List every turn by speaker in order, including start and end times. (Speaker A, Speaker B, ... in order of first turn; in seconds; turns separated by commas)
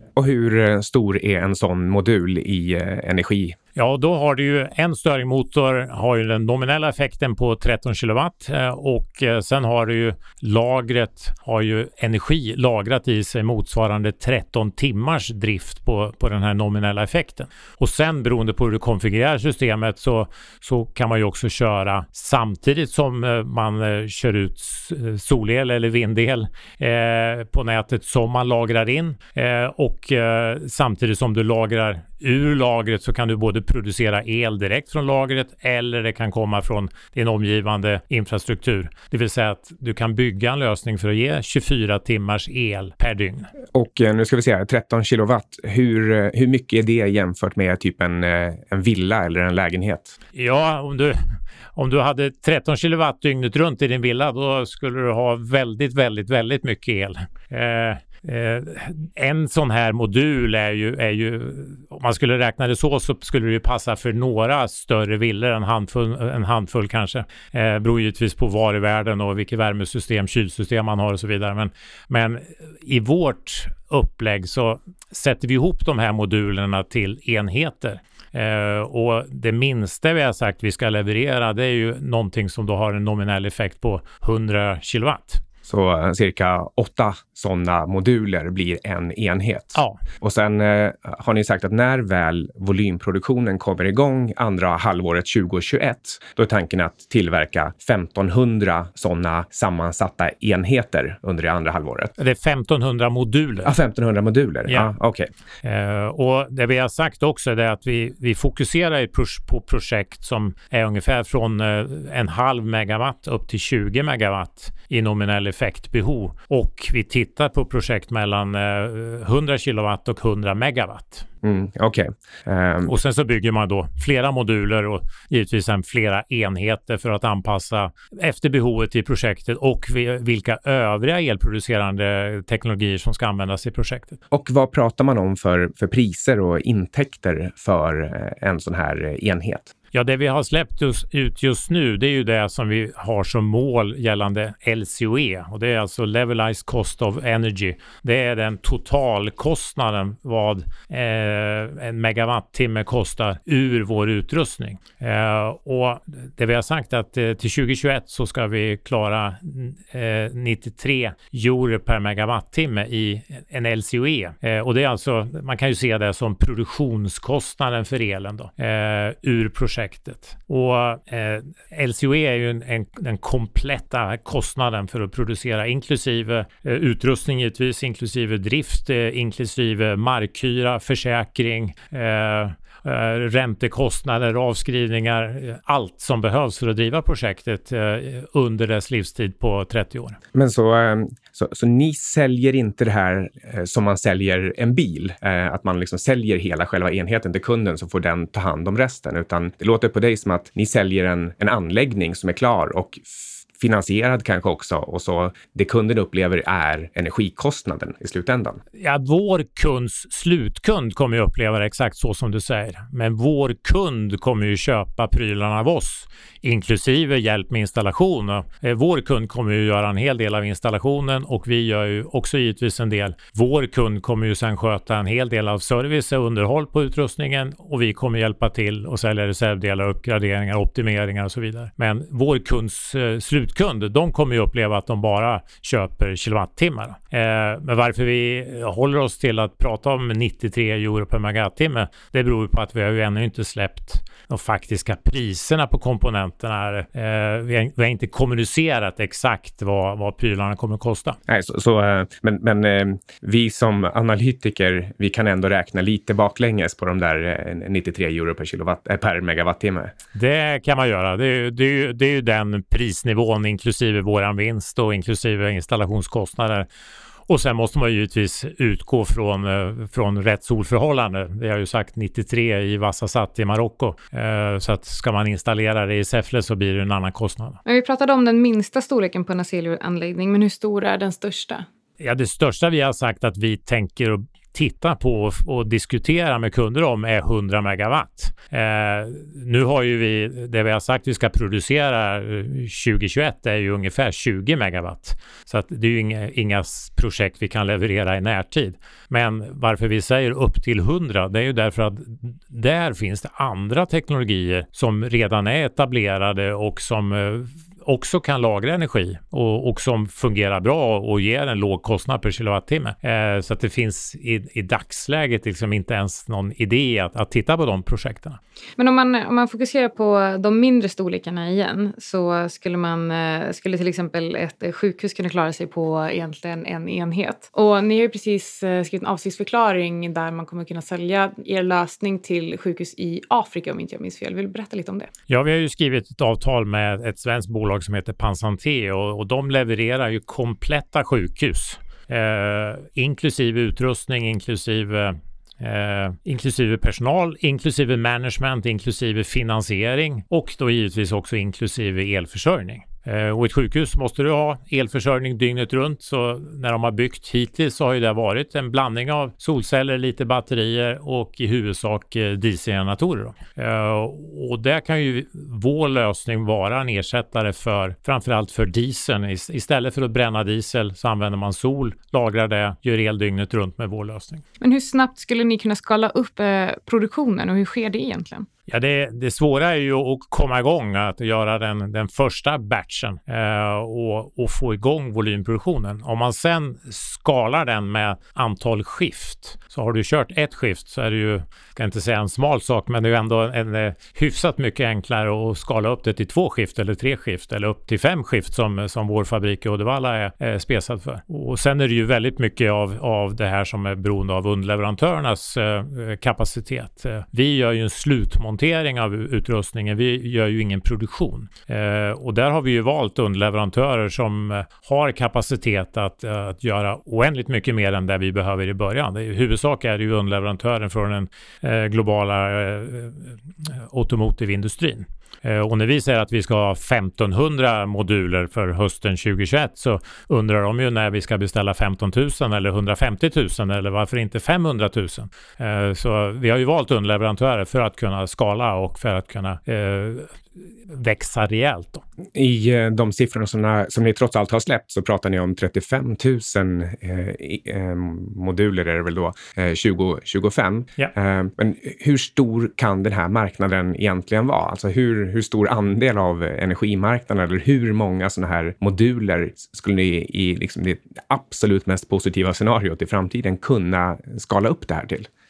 Speaker A: 0.1-3.6, Speaker B: 3.8-43.5, Speaker A: 43.7-50.1, Speaker B: 50.3-85.4, Speaker A: 85.7-102.1, Speaker B: 89.7-90.0, Speaker B: 102.2-103.7, Speaker A: 103.6-105.3, Speaker B: 105.6-121.2, Speaker A: 121.4-122.9, Speaker B: 122.8-134.2, Speaker A: 134.3-139.7, Speaker B: 139.9-190.2, Speaker A: 190.3-208.6, Speaker B: 208.8-251.2, Speaker A: 251.3-259.9, Speaker B: 260.1-266.7, Speaker B: 267.3-277.6, Speaker C: 277.6-281.6, Speaker B: 282.0-318.4, Speaker C: 318.8-335.1, Speaker B: 335.3-374.4, Speaker C: 374.6-378.5, Speaker B: 378.7-442.0, Speaker A: 442.3-465.3